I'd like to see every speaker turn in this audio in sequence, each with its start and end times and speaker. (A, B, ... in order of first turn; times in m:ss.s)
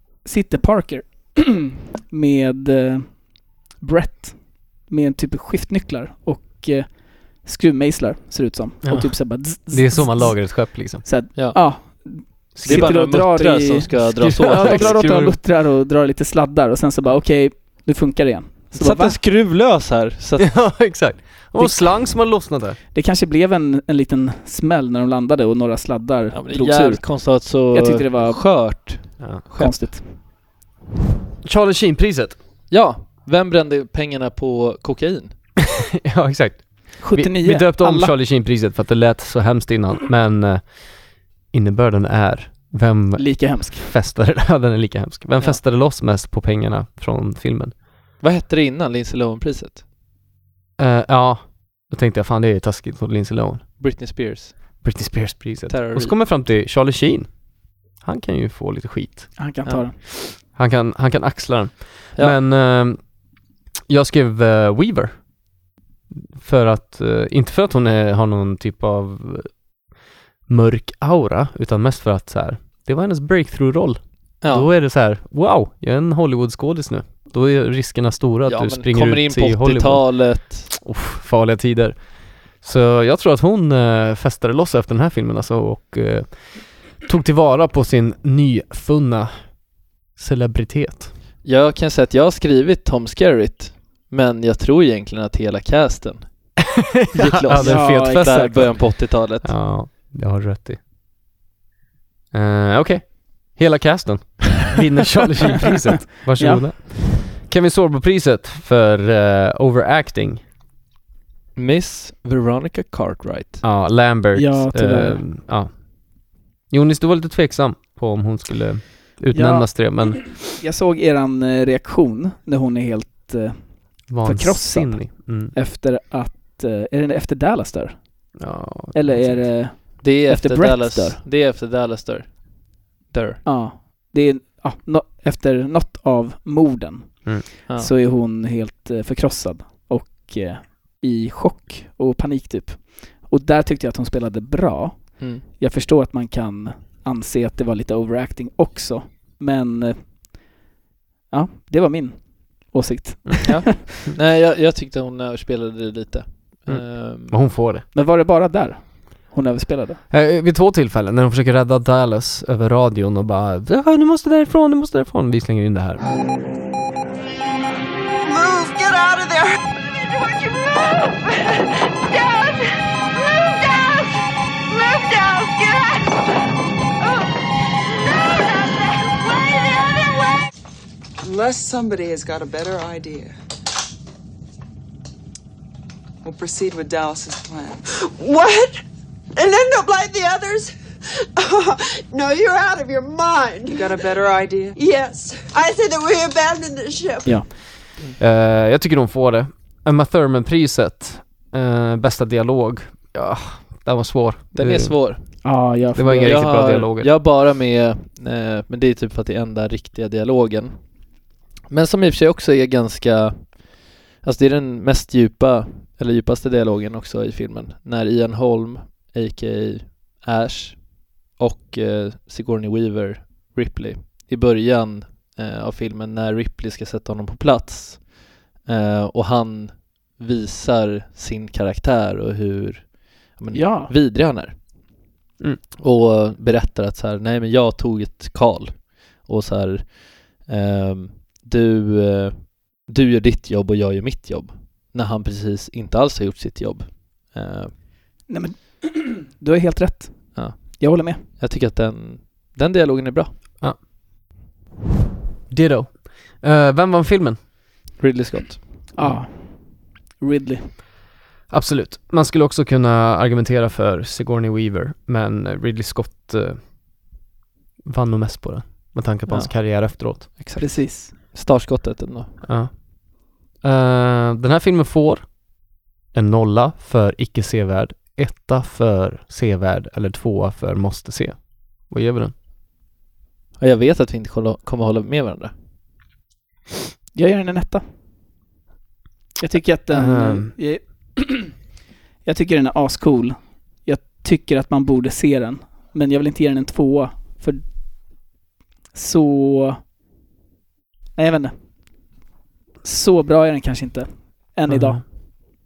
0:00.2-0:19.2 A
0:08.8-0:11.1 B
0:11.4-0:12.0 C
0:12.6-0:13.1 B
0:12.6-0:15.3 C
0:14.0-0:15.4 B
0:18.7-0:20.7 C
0:20.4-0:22.8 B
0:21.6-0:22.0 A
0:22.9-0:28.7 A
0:26.3-0:29.8 C
0:29.6-0:30.0 A
0:31.4-0:32.4 B
0:32.7-0:35.4 C
0:36.0-0:47.8 B
0:37.0-0:38.2 A
0:43.2-0:43.9 A
0:48.2-0:49.8 C
0:50.8-0:53.6 B
0:53.8-0:54.6 C
0:54.8-0:57.3 B
0:55.7-0:56.2 C
0:58.0-0:59.4 B
0:59.4-1:00.0 A
1:00.3-1:03.1 B
1:03.9-1:05.2 B
1:06.4-1:09.5 B
1:10.5-1:29.6 B
1:14.4-1:14.7 C
1:18.5-1:20.7 C
1:30.2-1:31.1 B
1:31.4-1:36.5 C
1:36.8-1:40.8 B
1:37.1-1:39.5 C
1:37.6-1:38.8 A
1:42.3-1:50.4 B
1:46.4-1:46.7 A
1:51.6-1:53.6 C
1:53.6-2:00.4 B
1:54.3-1:55.2 A
1:59.3-2:11.2 A
2:04.1-2:05.5 B
2:08.4-2:09.5 B
2:10.0-2:13.4 C
2:13.4-2:30.5 A
2:25.2-2:25.4 C
2:31.3-2:33.8 A
2:33.4-2:37.5 C
2:36.7-2:37.8 B
2:38.0-2:40.0 A
2:40.1-2:46.0 B
2:48.2-2:56.2 D
2:57.0-3:00.5 D
3:01.2-3:03.4 E
3:06.2-3:07.8 E
3:07.9-3:14.0 D
3:13.7-3:14.8 E
3:14.8-3:17.5 D
3:17.2-3:17.5 A
3:18.2-3:27.1 B
3:24.5-3:25.3 C
3:25.4-3:26.4 A
3:26.2-3:30.9 C
3:31.7-3:54.9 C
3:53.5-3:53.9 A
3:55.8-4:07.7 C
4:08.3-4:11.2 A
4:10.4-4:13.3 C
4:15.5-4:17.4 B
4:18.0-4:18.8 C
4:19.0-4:20.7 A
4:21.5-4:26.7 B
4:27.9-4:30.3 B
4:29.3-4:32.4 C
4:30.6-4:31.1 A
4:32.4-4:35.4 B
4:36.1-4:42.3 B
4:43.6-4:45.5 C
4:47.1-4:47.8 A
4:49.4-4:51.6 A
4:49.9-4:50.5 B
4:52.2-4:57.6 A
4:58.9-4:59.8 A
5:01.2-5:01.5 A
5:02.8-5:05.0 A
5:04.7-5:05.0 B